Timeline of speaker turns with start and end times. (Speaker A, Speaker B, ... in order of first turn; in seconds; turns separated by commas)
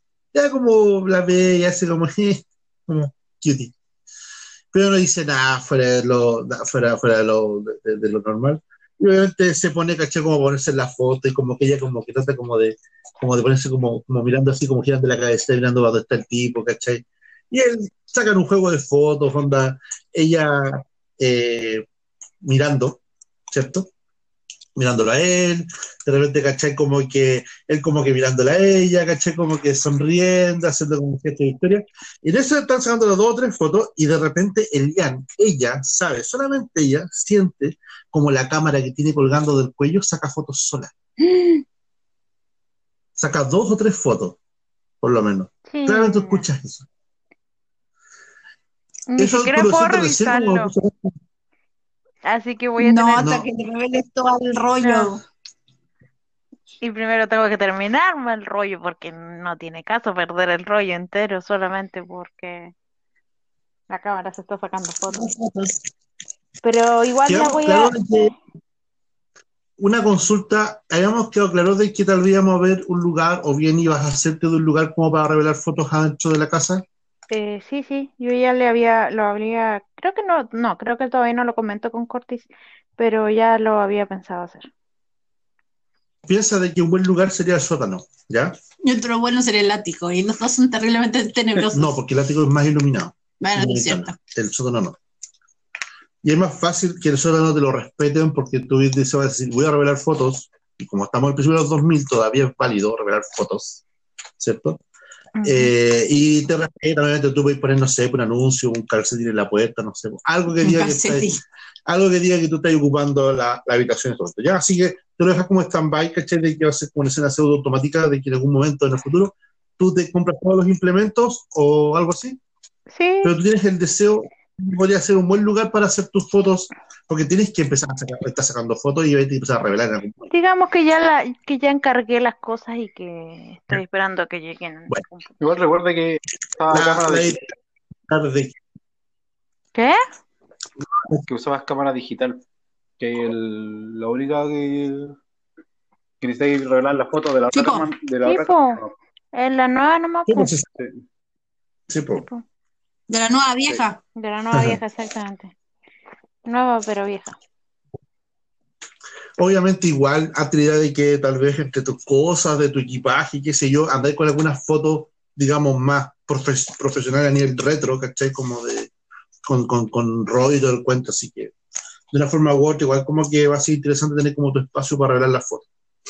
Speaker A: 0.3-3.7, Speaker A: 4.7-21.9, Speaker A: 22.4-23.9, Speaker A: 24.8-40.9, Speaker B: 41.3-41.6, Speaker A: 43.1-44.4, Speaker A: 45.0-46.9, Speaker C: 45.7-46.4, Speaker C: 49.1-50.7, Speaker A: 49.2-51.1, Speaker C: 52.2-53.3, Speaker B: 52.8-55.2, Speaker A: 53.1-53.5, Speaker C: 54.8-55.1, Speaker C: 56.8-62.7, Speaker C: 63.9-65.3, Speaker A: 65.1-65.8, Speaker C: 66.6-68.0, Speaker A: 67.2-68.3, Speaker A: 69.8-76.8, Speaker C: 77.3-84.7, Speaker A: 86.2-88.6, Speaker B: 88.8-91.9, Speaker A: 91.7-95.0, Speaker B: 93.4-94.2, Speaker A: 96.2-103.8, Speaker A: 104.4-104.8, Speaker C: 105.4-105.7, Speaker A: 105.4-122.4, Speaker B: 110.6-111.4, Speaker C: 122.9-123.3, Speaker A: 123.2-130.3, Speaker C: 130.3-135.3, Speaker D: 135.4-137.4, Speaker A: 136.7-137.5, Speaker A: 138.1-138.6, Speaker C: 139.7-140.0, Speaker A: 140.9-141.2, Speaker D: 141.3-142.4, Speaker D: 143.0-145.2, Speaker D: 146.2-148.9, Speaker B: 147.5-147.9, Speaker C: 148.2-148.8, Speaker C: 149.3-150.5, Speaker A: 150.3-150.7, Speaker A: 151.9-152.3, Speaker B: 153.1-154.0, Speaker C: 154.2-155.5, Speaker A: 154.5-154.8, Speaker C: 156.4-157.4, Speaker A: 159.4-168.9, Speaker A: 169.4-171.5, Speaker A: 172.1-175.7